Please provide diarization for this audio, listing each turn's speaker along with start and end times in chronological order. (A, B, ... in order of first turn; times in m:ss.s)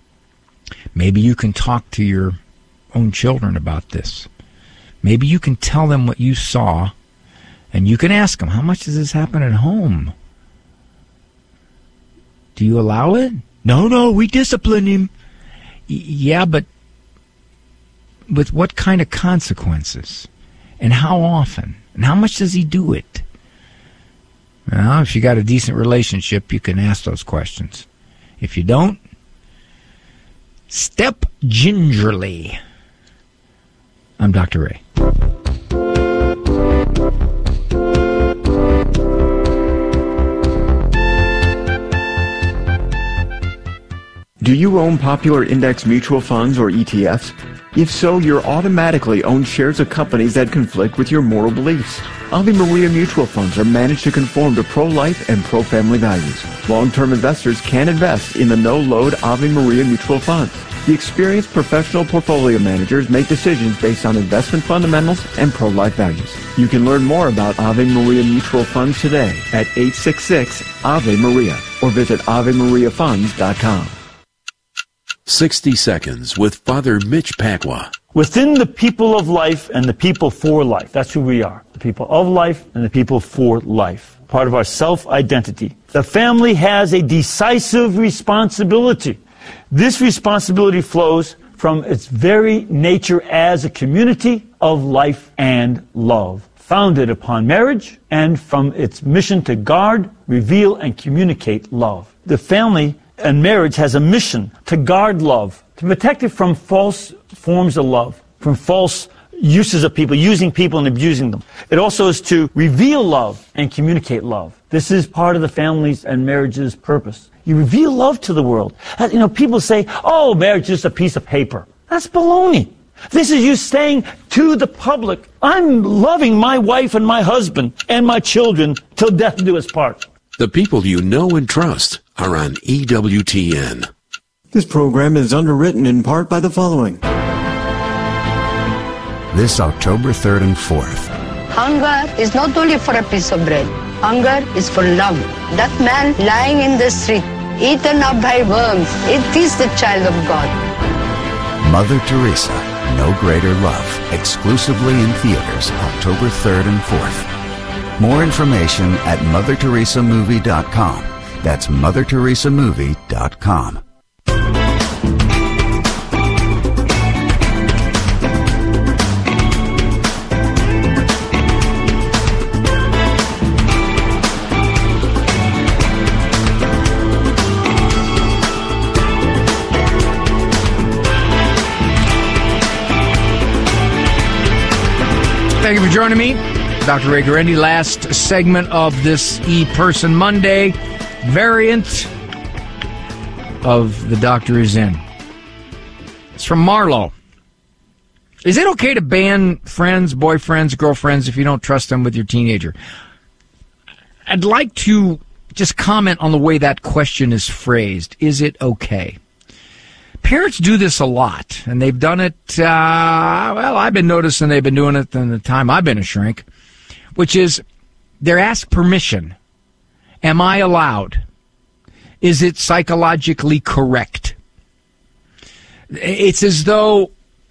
0:00.9-0:02.4 A
0:02.9-0:04.3 A
0:05.0-0:06.9 A
0:07.7-0:10.1 A
0:12.5-0:15.1 A
0:15.9-0:16.6 A
0:18.3-0:20.3 A
0:20.8-0:23.2 A
0:24.7-0:27.8 A
0:28.4-0:29.0 A
0:30.7-0:32.6 A
0:34.2-0:34.8 A
0:44.4-1:14.0 B
1:15.3-1:17.9 C
1:18.1-1:29.2 D
1:29.7-2:10.0 D
2:10.4-2:13.8 C
2:14.5-2:17.0 B
2:19.3-2:21.1 E
2:21.5-2:30.5 F
2:31.6-2:37.3 E
2:38.0-2:43.8 E
3:05.6-3:12.1 A
3:13.6-3:15.0 A
3:16.3-3:17.1 A
3:18.4-3:22.7 A
3:24.3-3:29.2 A
3:30.2-3:36.4 A
3:37.1-3:37.6 A
3:38.2-3:39.3 A
3:40.2-3:41.2 A
3:42.2-3:44.4 A
3:45.9-3:47.1 A